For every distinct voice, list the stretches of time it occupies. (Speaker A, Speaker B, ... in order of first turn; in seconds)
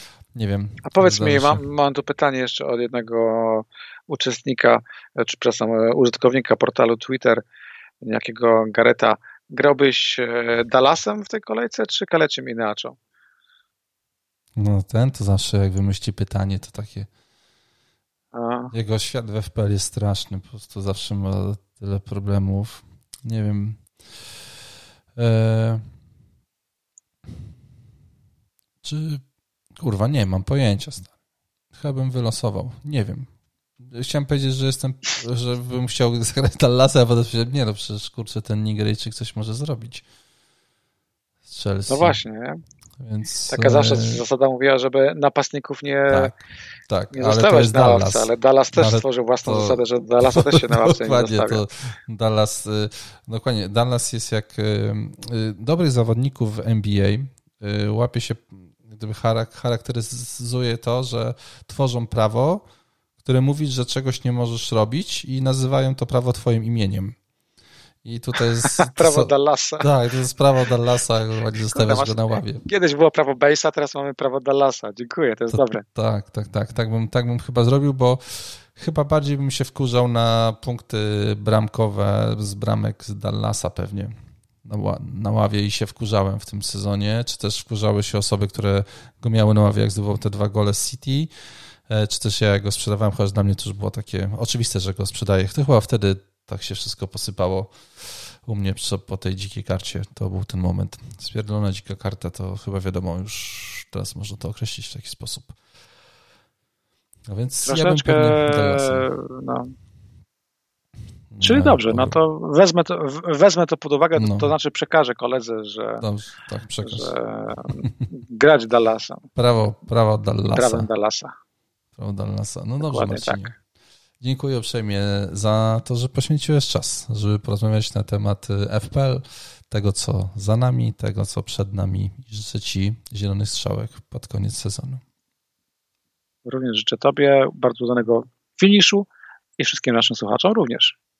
Speaker A: 0.3-1.6, 14.6-17.1, 18.7-24.3, 25.2-25.9, 28.8-29.2, 29.8-31.1, 31.8-40.0, 41.5-42.2, 43.0-44.2, 46.1-62.6, 63.2-67.2, 68.0-72.6, 75.5-84.1, 84.6-91.3, 91.9-105.6, 107.3-109.1, 111.3-112.2, 114.2-114.5, 116.0-117.1, 119.4-120.9, 122.0-123.6, 124.2-135.0
Speaker B: 0.8-7.4, 8.0-13.0, 18.3-18.7, 41.9-42.6, 43.5-46.3, 47.1-51.6, 68.4-69.9, 71.7-75.8, 107.6-109.7, 111.4-116.0, 116.8-119.3, 120.5-121.3, 122.8-123.5, 136.5-139.1, 139.6-141.0